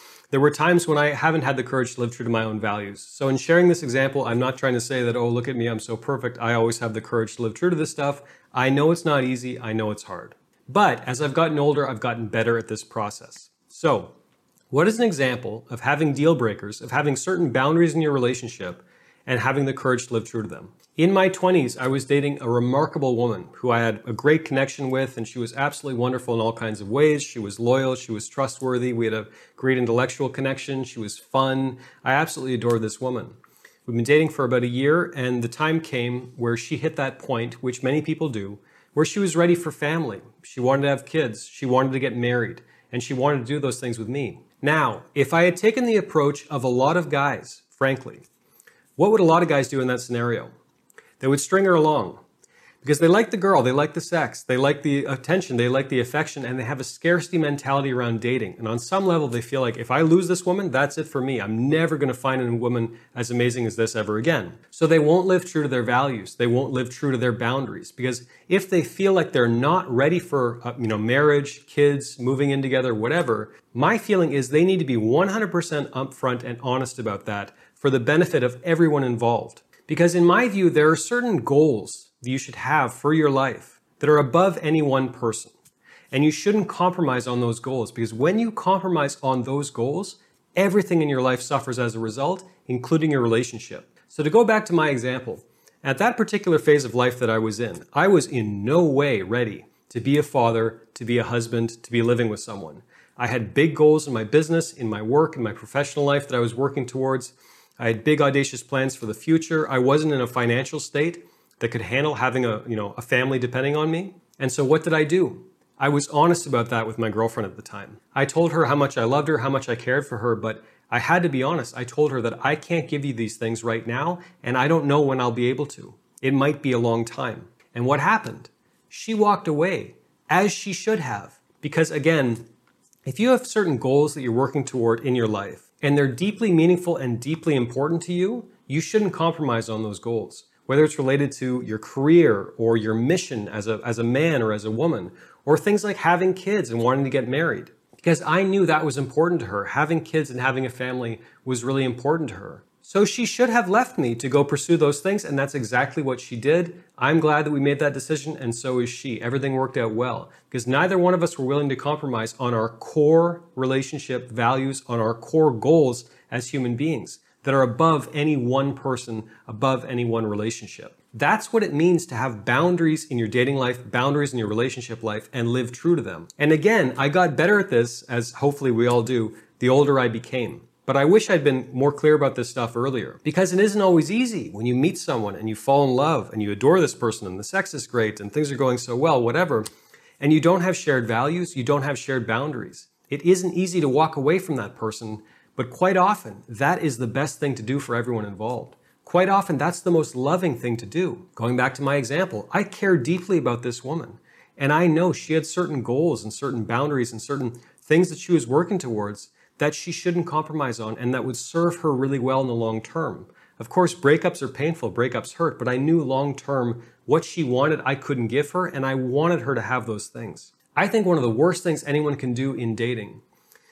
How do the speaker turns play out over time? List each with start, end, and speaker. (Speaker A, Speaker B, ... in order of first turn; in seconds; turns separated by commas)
Speaker A: 0.3-14.1, Speaker A: 14.7-48.2, Speaker A: 49.0-50.5, Speaker A: 51.2-52.2, Speaker A: 52.8-85.5, Speaker A: 86.1-132.5, Speaker A: 133.1-189.7, Speaker A: 190.2-223.2